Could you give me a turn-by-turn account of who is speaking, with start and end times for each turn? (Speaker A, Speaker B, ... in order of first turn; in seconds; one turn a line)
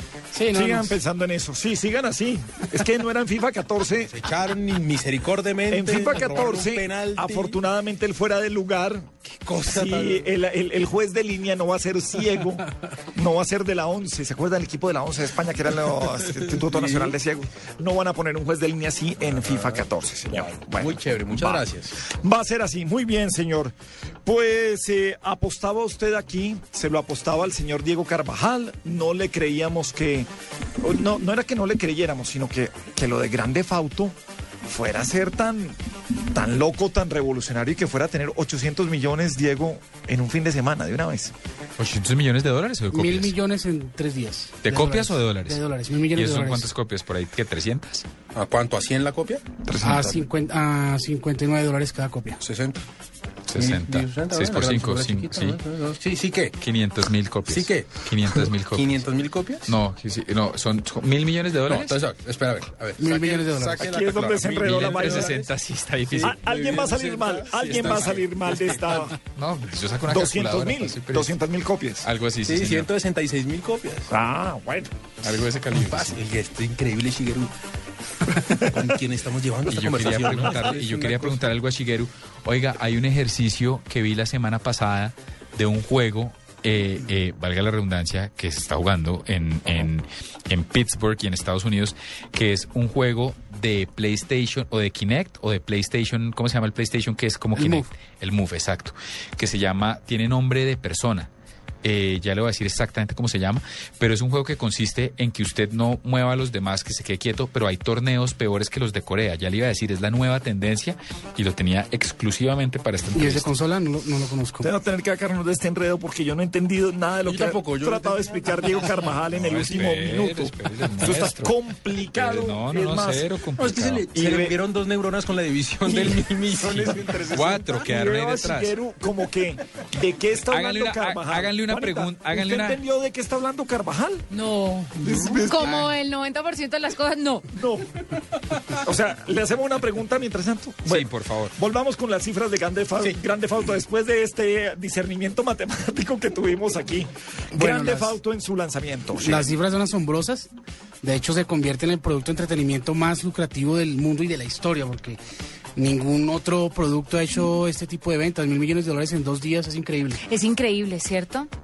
Speaker A: 0.3-1.0
Speaker B: 0.5-4.2
Speaker C: 4.0-7.6
Speaker B: 5.7-30.3
Speaker C: 9.4-10.3
Speaker C: 16.8-17.1
Speaker C: 19.3-22.1
Speaker B: 30.8-35.8
Speaker B: 36.3-41.3
Speaker D: 41.8-43.3
Speaker A: 42.9-46.7
Speaker D: 44.6-45.6
Speaker D: 46.1-48.1
Speaker C: 48.3-49.4
Speaker D: 49.6-50.0
Speaker A: 49.8-52.4
Speaker C: 52.4-52.8
Speaker D: 53.5-55.6
Speaker C: 53.5-56.6
Speaker D: 56.6-59.1
Speaker C: 57.5-59.7
Speaker D: 59.6-62.0
Speaker C: 61.6-65.5
Speaker A: 63.0-63.9
Speaker B: 63.8-65.4
Speaker D: 64.6-66.4
Speaker C: 66.1-69.0
Speaker B: 66.2-69.2
Speaker D: 69.3-71.3
Speaker B: 70.1-72.1
Speaker D: 72.0-72.9
Speaker C: 72.4-74.1
Speaker B: 74.1-74.9
Speaker D: 75.2-76.2
Speaker C: 75.7-77.5
Speaker C: 78.3-81.5
Speaker D: 79.7-101.3
Speaker A: 97.5-97.9
Speaker D: 101.8-113.5
Speaker A: 113.1-114.7
Speaker B: 114.6-123.3
Speaker C: 117.2-119.1
Speaker D: 119.3-124.1
Speaker C: 123.5-127.8
Speaker B: 124.1-124.6
Speaker B: 125.8-134.2
Speaker D: 127.3-128.7
Speaker D: 130.5-132.8
Speaker E: 134.3-137.5
Speaker B: 135.0-135.9
Speaker C: 135.0-135.3
Speaker B: 137.5-149.5
Speaker D: 140.8-141.5
Speaker A: 147.5-148.2
Speaker A: 149.2-150.5
Speaker A: 151.0-155.2
Speaker A: 155.8-160.2
Speaker E: 160.2-161.5